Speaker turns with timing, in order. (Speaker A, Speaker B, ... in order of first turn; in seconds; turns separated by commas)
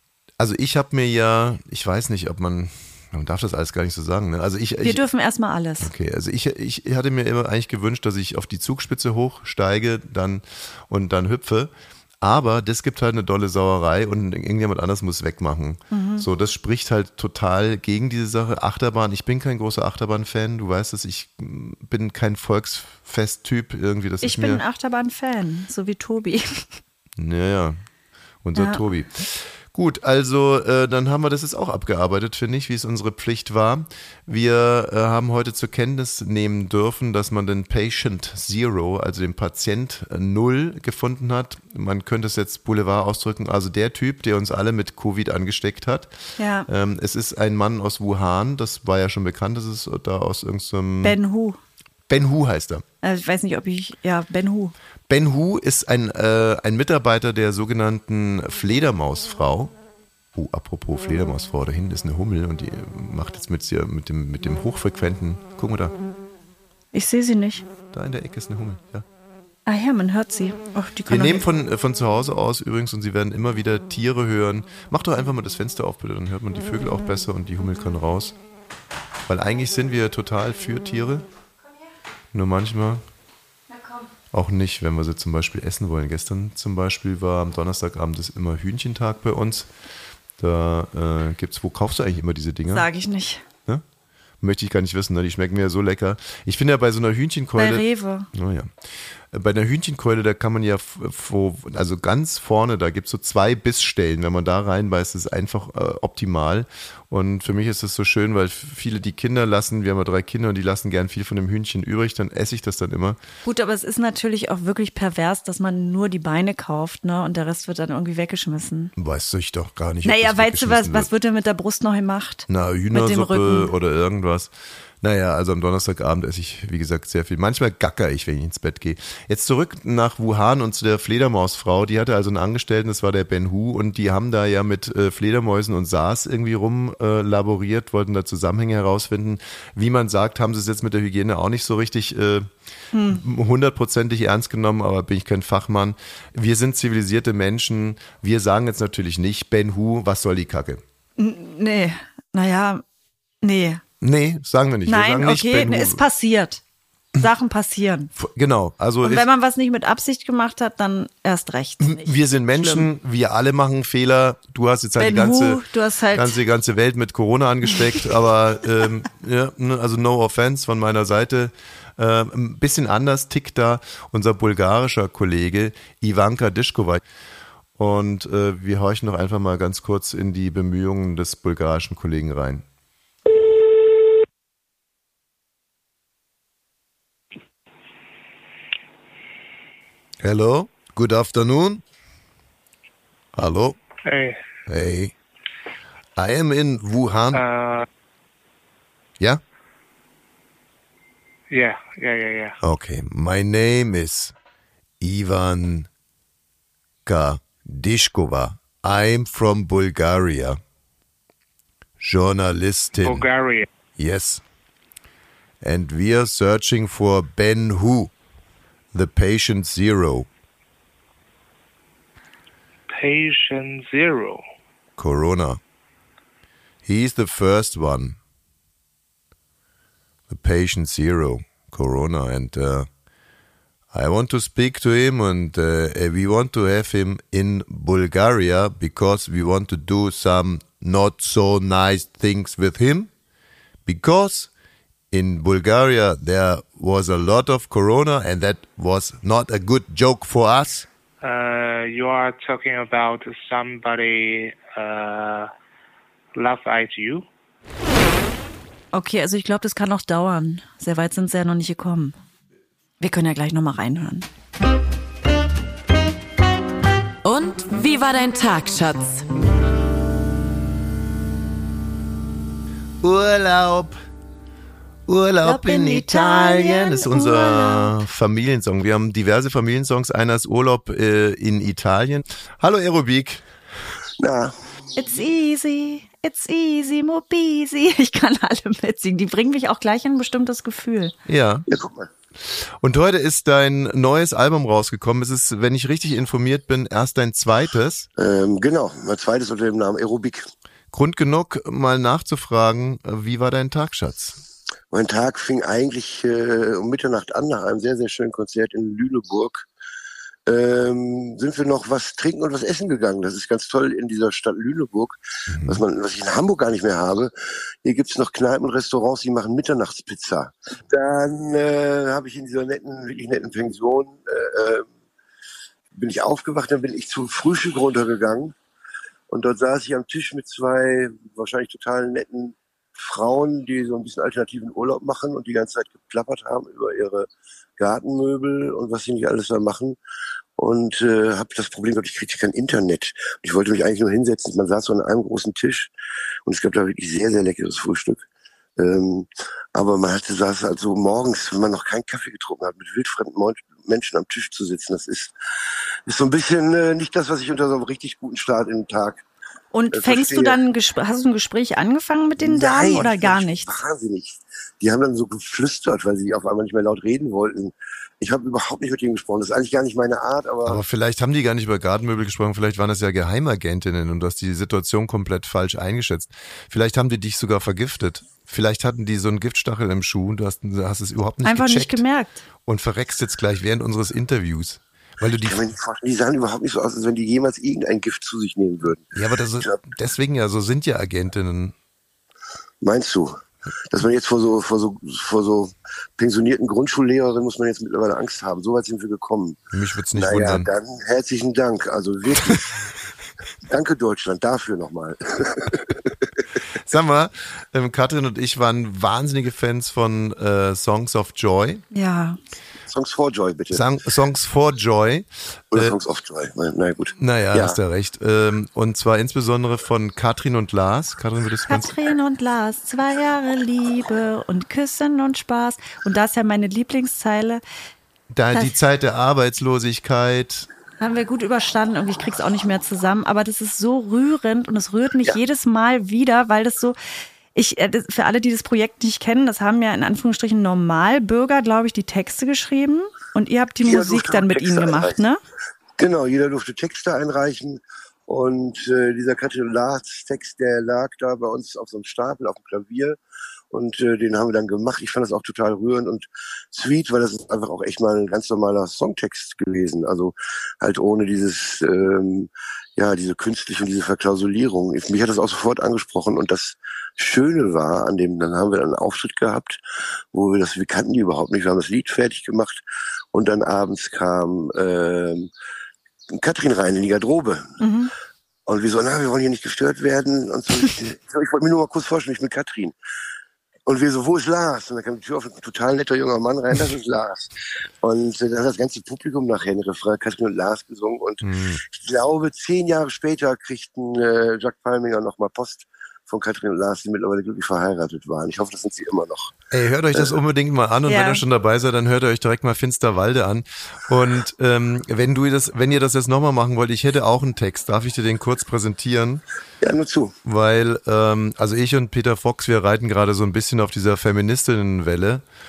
Speaker A: 0.4-5.0, Speaker B: 4.8-5.9, Speaker A: 5.8-24.6, Speaker B: 15.9-16.3, Speaker B: 24.2-26.8, Speaker A: 27.2-27.8, Speaker A: 28.4-46.1, Speaker B: 28.6-28.8, Speaker B: 46.4-46.7, Speaker A: 46.7-51.1, Speaker B: 51.0-51.6, Speaker A: 52.1-52.8, Speaker B: 53.0-54.7, Speaker A: 55.1-59.7, Speaker A: 60.3-65.9, Speaker B: 66.9-67.6, Speaker A: 67.9-69.0, Speaker B: 69.7-71.4, Speaker A: 71.1-78.3, Speaker A: 79.3-81.2, Speaker A: 82.3-83.0, Speaker B: 83.7-84.0, Speaker A: 84.3-89.7, Speaker A: 90.4-92.9, Speaker B: 92.7-93.4, Speaker A: 94.4-98.7, Speaker B: 97.6-98.3, Speaker A: 99.3-113.2, Speaker B: 113.4-118.9, Speaker A: 119.0-121.1, Speaker B: 120.0-123.7, Speaker A: 122.5-124.5, Speaker A: 125.0-142.5, Speaker B: 142.9-143.2, Speaker A: 143.1-150.8, Speaker B: 151.2-152.8, Speaker B: 153.4-153.8, Speaker A: 154.0-156.0, Speaker B: 154.8-156.6, Speaker B: 157.2-158.1, Speaker A: 158.2-159.3, Speaker B: 159.0-162.9, Speaker A: 161.8-165.6, Speaker B: 165.0-166.4, Speaker A: 166.1-177.0, Speaker A: 177.8-182.6, Speaker A: 190.2-191.8, Speaker A: 193.3-193.8, Speaker C: 194.0-194.4, Speaker A: 194.7-195.1, Speaker A: 196.2-197.4, Speaker C: 197.3-197.8, Speaker C: 201.5-202.6, Speaker A: 202.6-204.3, Speaker A: 205.0-205.9, Speaker A: 207.1-210.6, Speaker A: 212.0-213.3, Speaker C: 213.0-213.7, Speaker A: 214.0-214.4, Speaker A: 215.6-218.1, Speaker A: 218.9-220.3, Speaker C: 222.9-224.4, Speaker A: 225.0-225.6, Speaker A: 226.8-228.2, Speaker A: 230.3-232.9, Speaker A: 233.9-243.1, Speaker A: 243.8-244.5, Speaker A: 245.1-250.9, Speaker C: 251.2-255.5, Speaker C: 256.3-257.2, Speaker B: 258.9-262.1, Speaker B: 263.0-264.3, Speaker D: 267.2-269.2, Speaker A: 273.0-274.0, Speaker A: 275.1-283.4, Speaker B: 275.4-278.0, Speaker E: 284.2-284.5, Speaker B: 284.9-291.1, Speaker A: 291.3-291.6, Speaker E: 291.7-292.1, Speaker A: 292.5-298.1, Speaker E: 298.2-300.5, Speaker A: 300.9-304.4, Speaker E: 304.9-309.7, Speaker E: 310.4-317.3, Speaker A: 315.5-315.8, Speaker E: 317.8-324.9, Speaker E: 325.9-328.5, Speaker E: 329.3-340.0, Speaker E: 340.6-345.9, Speaker E: 346.4-348.2, Speaker E: 348.8-355.3, Speaker E: 356.1-359.2, Speaker B: 359.7-363.7, Speaker E: 359.9-360.6, Speaker E: 362.4-370.8, Speaker A: 370.6-382.0, Speaker B: 381.4-382.4, Speaker A: 382.6-385.7, Speaker E: 385.4-389.8, Speaker A: 389.1-391.7, Speaker E: 392.8-399.6, Speaker A: 399.7-400.7, Speaker E: 400.1-402.9, Speaker E: 403.6-406.3, Speaker A: 406.7-411.8, Speaker B: 411.9-412.4, Speaker E: 412.9-413.8, Speaker A: 413.7-416.0, Speaker E: 415.7-417.8, Speaker A: 417.2-421.9, Speaker B: 421.7-427.6, Speaker A: 428.3-430.7, Speaker B: 431.0-437.0, Speaker B: 437.5-445.4, Speaker E: 443.8-445.2, Speaker E: 446.0-453.2, Speaker E: 453.7-469.8, Speaker E: 470.3-472.8, Speaker E: 473.3-475.5, Speaker E: 476.3-477.8, Speaker B: 477.8-478.1, Speaker E: 478.6-482.9, Speaker E: 483.9-499.5, Speaker A: 491.4-491.8, Speaker A: 499.7-509.4, Speaker B: 501.1-501.4, Speaker E: 509.8-510.3, Speaker A: 510.4-515.4